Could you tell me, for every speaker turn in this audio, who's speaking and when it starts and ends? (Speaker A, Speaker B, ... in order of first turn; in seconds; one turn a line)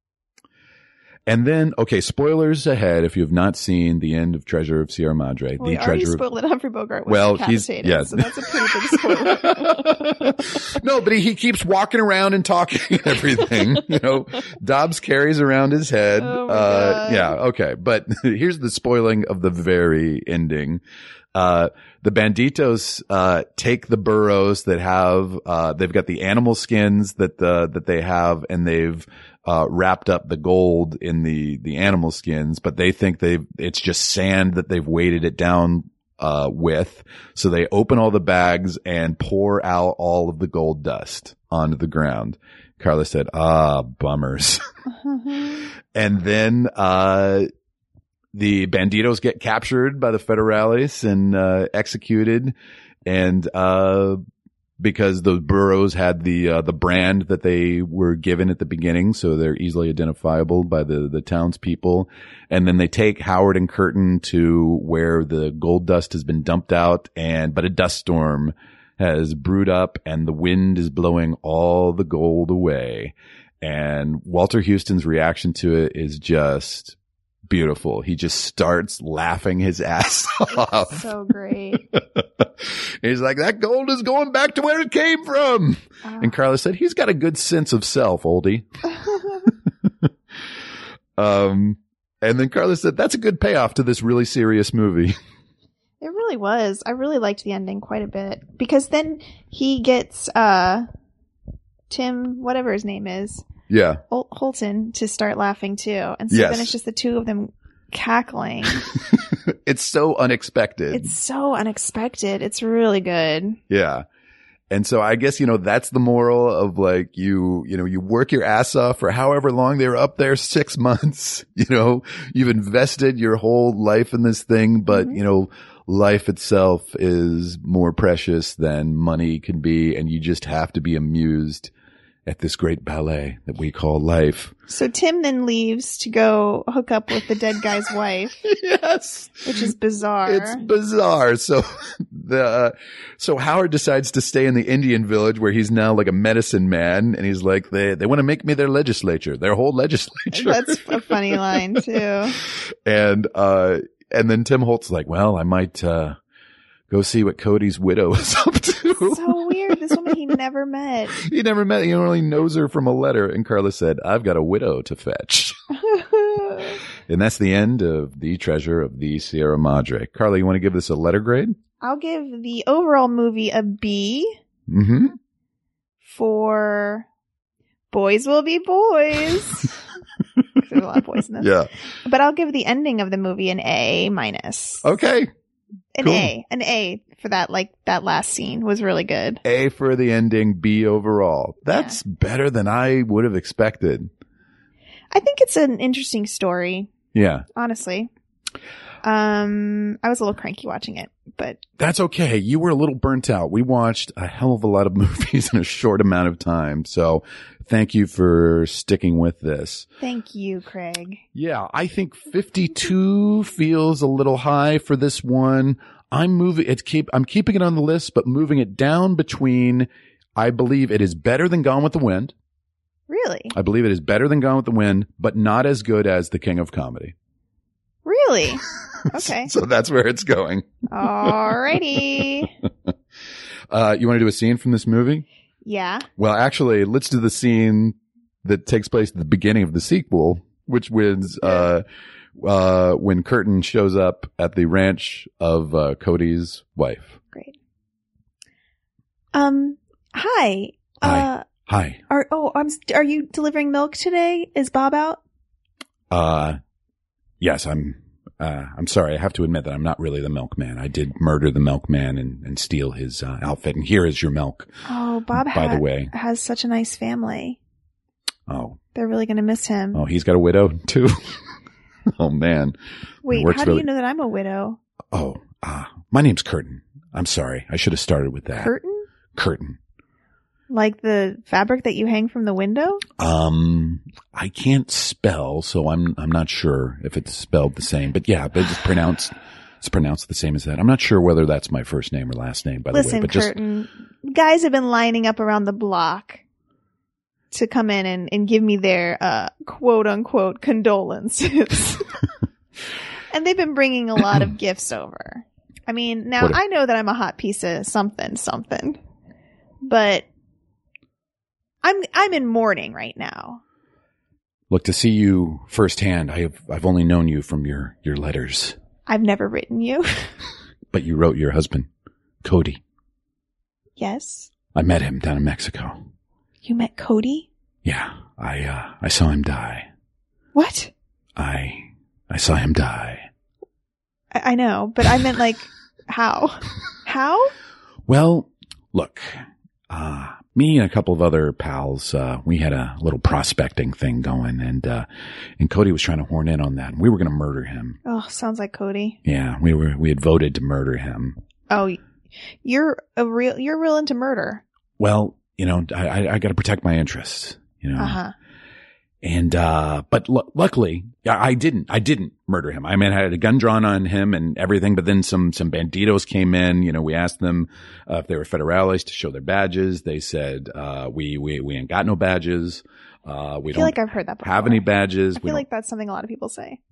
Speaker A: 1.3-6.2
Speaker B: 5.6-10.1
Speaker A: 7.0-20.8
Speaker B: 16.2-17.4
Speaker A: 21.3-44.6
Speaker B: 45.0-45.6
Speaker A: 45.9-47.5
Speaker A: 48.3-52.5
Speaker A: 53.0-54.2
Speaker A: 54.8-77.0
Speaker A: 77.5-81.0
Speaker B: 80.5-81.8
Speaker A: 81.9-88.7
Speaker B: 86.0-86.3
Speaker B: 88.9-89.5
Speaker A: 91.2-95.2
Speaker B: 96.0-100.8
Speaker B: 101.9-103.5
Speaker A: 103.7-104.0
Speaker B: 104.1-108.9
Speaker A: 106.3-106.7
Speaker A: 109.1-111.1
Speaker B: 110.9-113.6
Speaker A: 113.7-114.0
Speaker A: 114.7-131.7
Speaker B: 124.9-125.2
Speaker A: 132.2-134.5
Speaker B: 134.7-138.4
Speaker A: 138.4-139.7
Speaker B: 139.4-140.6
Speaker A: 140.2-151.8
Speaker B: 150.3-152.4
Speaker A: 152.8-156.2
Speaker A: 156.9-160.1
Speaker B: 159.1-161.2
Speaker A: 161.2-165.6
Speaker B: 165.7-166.8
Speaker A: 167.1-171.6
Speaker B: 171.8-174.4
Speaker A: 174.7-175.2
Speaker B: 176.0-177.1
Speaker B: 177.9-179.8
Speaker B: 180.6-184.8
Speaker A: 181.4-181.7
Speaker A: 184.8-185.3
Speaker B: 185.9-189.4
Speaker A: 186.0-186.3
Speaker A: 189.4-194.1
Speaker B: 191.7-192.0
Speaker B: 195.1-196.9
Speaker A: 197.1-197.4
Speaker B: 197.5-198.1
Speaker B: 199.0-201.6
Speaker A: 201.8-209.9
Speaker B: 210.0-211.2
Speaker A: 211.3-222.3
Speaker B: 223.1-223.5
Speaker A: 223.5-227.1
Speaker B: 228.0-229.5
Speaker A: 229.1-232.0
Speaker B: 230.9-232.5
Speaker A: 233.7-235.2
Speaker B: 235.6-236.1
Speaker A: 236.2-241.8
Speaker A: 242.4-247.2
Speaker B: 249.3-251.5
Speaker A: 251.0-252.0
Speaker B: 252.1-255.2
Speaker A: 256.1-256.6
Speaker A: 257.4-264.7
Speaker B: 264.9-267.6
Speaker A: 265.3-266.1
Speaker A: 268.5-268.8
Speaker B: 268.9-270.0
Speaker A: 269.9-271.2
Speaker A: 272.2-272.8
Speaker B: 273.2-274.8
Speaker A: 273.3-273.9
Speaker A: 275.1-278.7
Speaker B: 278.6-279.1
Speaker A: 279.3-279.8
Speaker B: 280.7-283.0
Speaker A: 283.2-293.5
Speaker B: 292.9-296.4
Speaker B: 297.5-302.1
Speaker B: 303.3-309.0
Speaker B: 309.8-310.3
Speaker B: 311.8-313.6
Speaker A: 314.7-318.8
Speaker B: 319.1-320.3
Speaker A: 320.9-321.9
Speaker A: 322.4-322.8
Speaker B: 324.0-324.5
Speaker A: 324.7-326.0
Speaker B: 326.6-327.5
Speaker A: 327.8-329.9
Speaker B: 330.5-330.9
Speaker A: 331.4-333.2
Speaker B: 334.3-337.5
Speaker A: 338.1-345.1
Speaker A: 345.6-348.0
Speaker B: 348.0-349.2
Speaker A: 349.2-351.4
Speaker B: 351.7-352.0
Speaker B: 352.6-354.6
Speaker A: 355.0-358.2
Speaker B: 358.0-358.3
Speaker A: 359.2-375.6
Speaker B: 373.7-376.8